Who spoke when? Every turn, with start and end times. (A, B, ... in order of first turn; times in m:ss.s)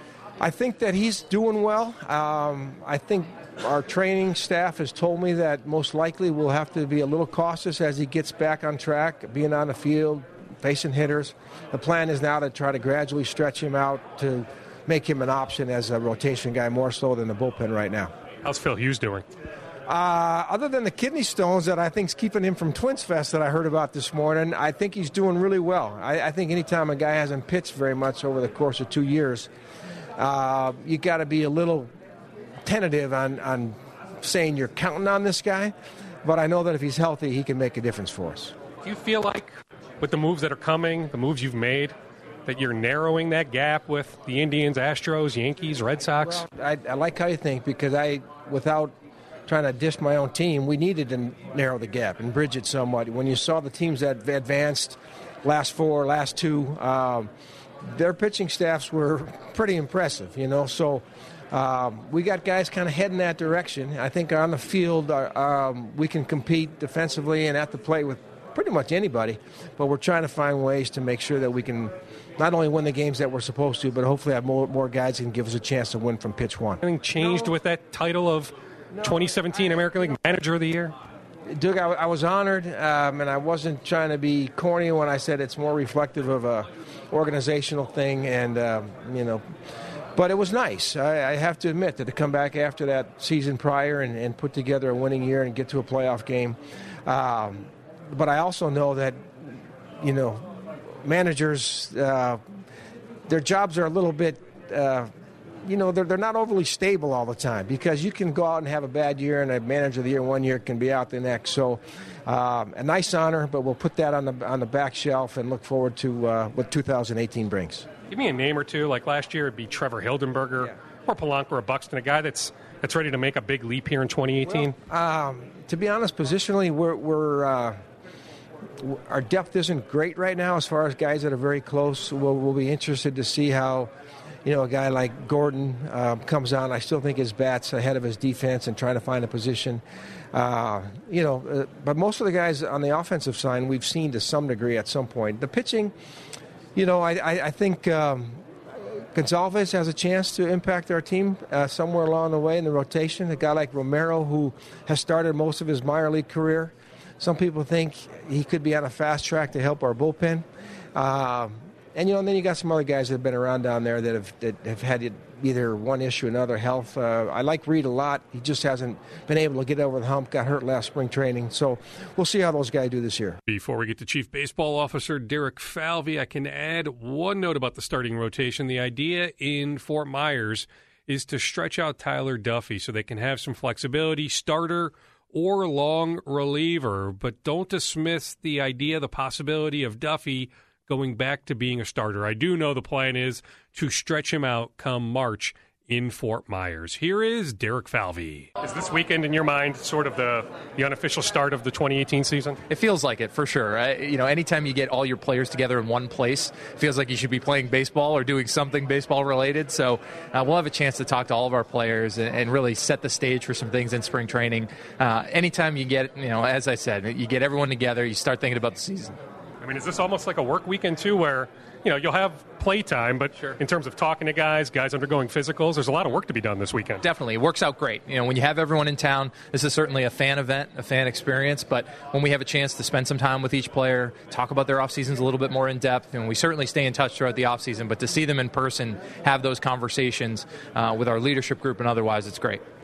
0:00.4-0:18.1 A
0:18.4-0:19.3 B
0:19.9-0:29.5 A
0:30.2-0:31.9 A
0:32.6-0:38.5 A
0:38.8-0:41.9 B
0:42.5-0:46.4 B
0:46.2-0:48.9 A
0:49.5-0:57.3 A
0:57.8-1:16.8 A
1:16.8-1:20.9 B
1:21.5-1:29.4 A
1:30.2-1:39.2 A
1:40.0-1:42.4 A
1:43.3-1:45.1 A
1:45.7-1:57.9 A
1:58.1-2:04.8 B
2:04.5-2:07.8 A
2:08.8-2:13.9 A
2:14.4-2:19.8 A
2:20.3-2:25.9 A
2:26.8-2:28.4 A
2:29.1-2:53.4 A
2:53.5-3:22.6 B
3:22.7-3:39.2 C
3:39.6-3:47.0 B
3:47.0-4:02.6 C